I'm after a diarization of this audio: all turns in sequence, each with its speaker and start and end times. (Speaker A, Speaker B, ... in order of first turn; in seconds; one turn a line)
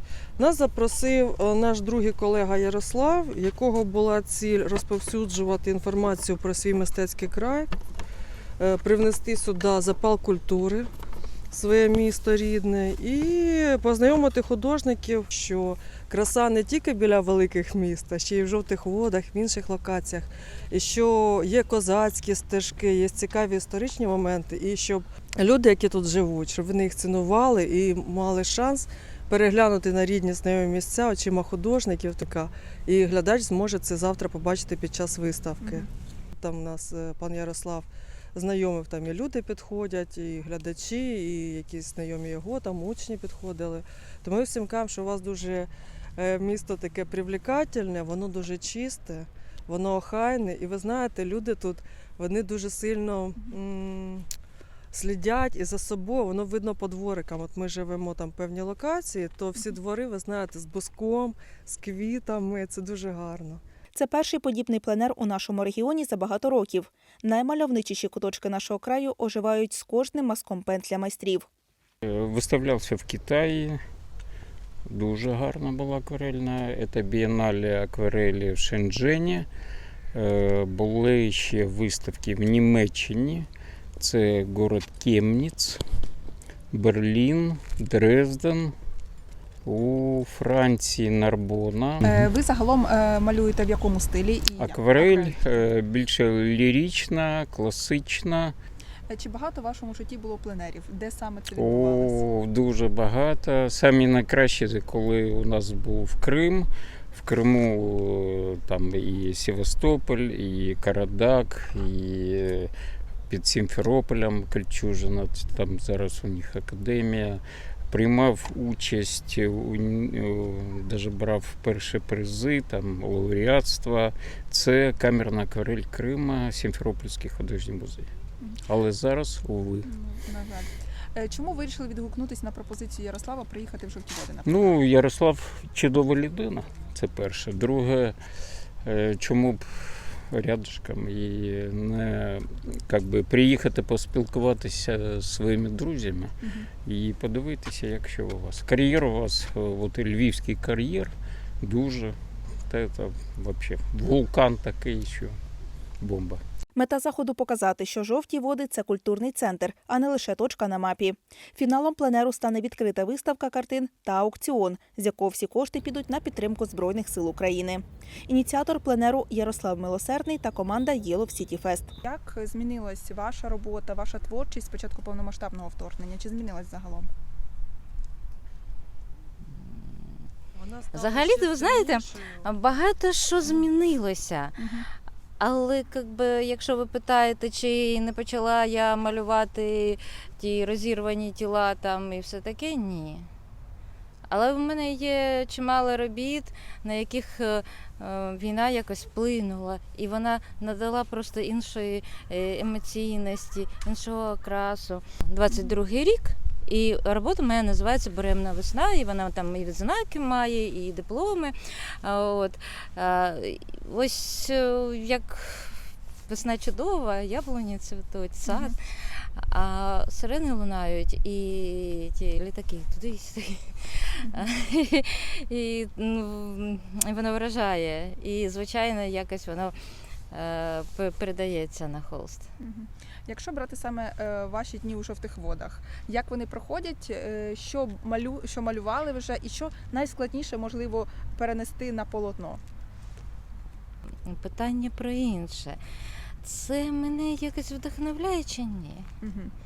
Speaker A: 0.4-7.7
Speaker A: 8.6-10.9
Speaker A: 11.5-54.3
Speaker A: 54.9-63.6
Speaker B: 63.9-71.5
Speaker C: 72.0-73.8
Speaker C: 74.9-79.5
Speaker C: 80.1-83.5
Speaker C: 84.0-85.8
Speaker C: 86.7-88.8
Speaker C: 89.6-92.1
Speaker D: 92.0-95.6
Speaker C: 94.6-98.5
Speaker D: 99.1-102.2
Speaker C: 101.5-112.7
Speaker C: 113.3-128.1
Speaker C: 128.7-129.9
Speaker D: 129.8-134.7
Speaker C: 134.4-138.2
Speaker C: 138.8-155.4
Speaker D: 146.4-146.7
Speaker C: 156.0-156.4
Speaker B: 156.8-172.0
Speaker D: 172.0-177.1
Speaker E: 179.5-180.2
Speaker A: 180.5-182.5
Speaker E: 180.9-184.6
Speaker D: 184.6-184.9
Speaker E: 185.4-193.3
Speaker E: 194.3-229.8
Speaker D: 218.5-218.8
Speaker E: 230.3-232.5
Speaker D: 232.6-242.6
Speaker E: 244.2-245.8
Speaker E: 246.4-249.1
Speaker D: 249.2-249.5